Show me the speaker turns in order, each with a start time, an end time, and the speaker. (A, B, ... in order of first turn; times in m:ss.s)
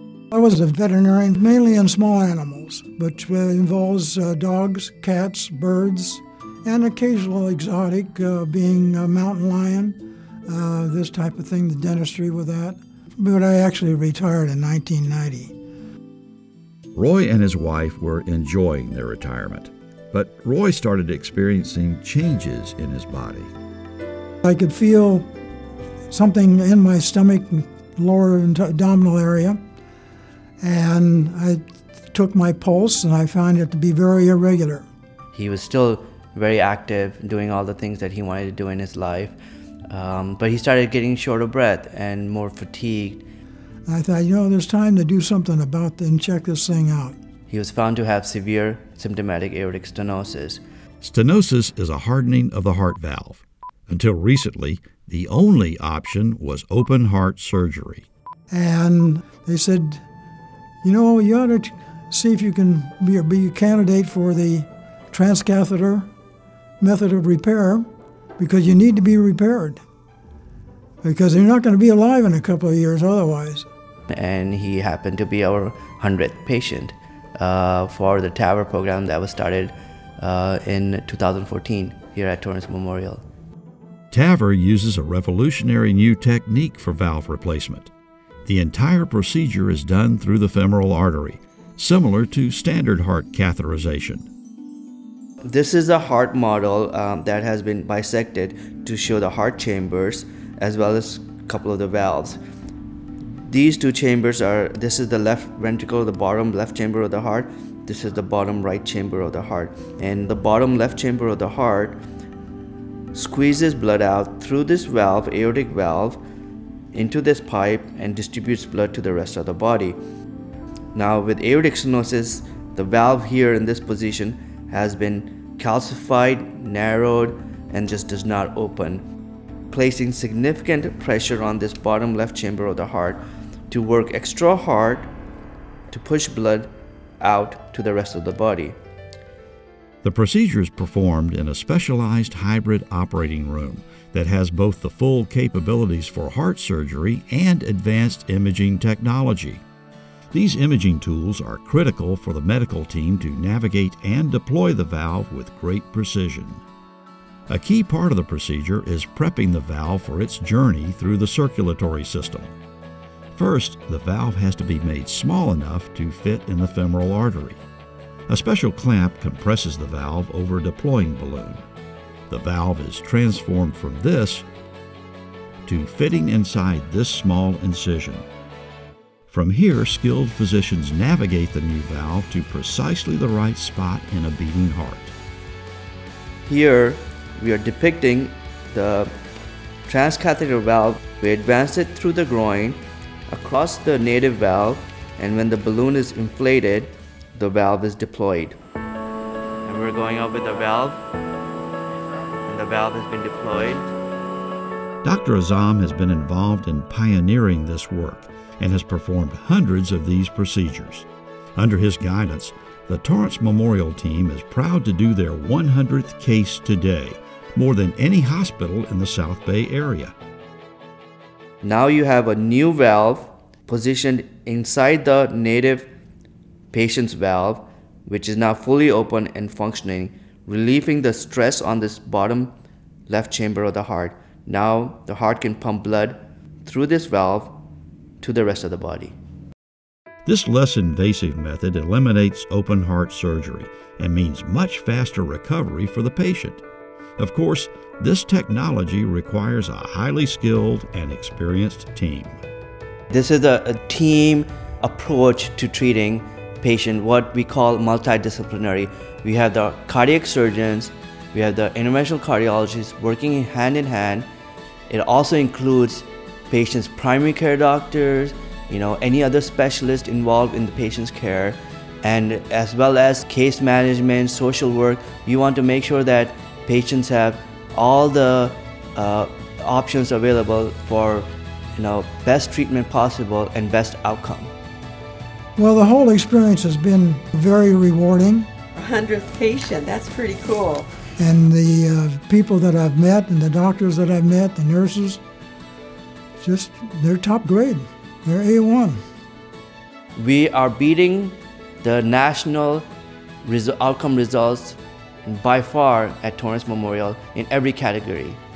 0:00.3-0:15.5 A
0:16.9-0:23.5 B
0:24.4-0:25.3 A
0:26.1-0:29.6 A
0:30.6-0:34.9 A
0:35.3-0:39.4 C
0:39.9-0:43.2 C
0:43.9-0:47.2 A
0:47.5-0:50.6 C
0:51.0-0:58.0 B
0:58.5-1:00.0 A
1:00.8-1:06.1 A
1:06.8-1:07.8 A
1:08.4-1:09.8 A
1:11.0-1:13.7 A
1:14.1-1:23.2 C
1:24.1-1:27.9 B
1:28.4-1:34.3 B
1:35.4-1:42.4 C
1:43.4-1:52.0 C
1:53.1-1:56.2 C
1:56.9-2:00.0 C
2:00.9-2:09.0 C
2:09.7-2:15.1 C
2:15.9-2:16.7 C
2:17.2-2:18.8 C
2:20.0-2:29.6 B
2:30.3-2:36.6 B
2:37.5-2:42.5 B
2:43.3-2:47.6 B
2:48.3-2:51.6 B
2:52.3-2:54.4 B
2:55.6-2:58.2 B
2:59.3-3:05.1 B
3:06.5-3:09.1 C
3:09.9-3:18.6 C
3:19.6-3:21.0 C
3:22.4-3:23.9 C
3:25.0-3:40.1 B
3:41.6-3:45.9 C
3:46.7-3:52.5 C
3:53.1-3:57.6 C
3:58.2-3:59.1 C
4:00.2-4:06.6 B
4:07.2-4:12.4 B
4:13.1-4:24.3 C
4:24.9-4:44.5 C
4:45.6-4:48.5 A
4:48.8-4:50.9 D
4:51.2-4:55.2 A
4:56.4-4:59.0 A
5:00.2-5:02.9 C
5:03.4-5:08.4 C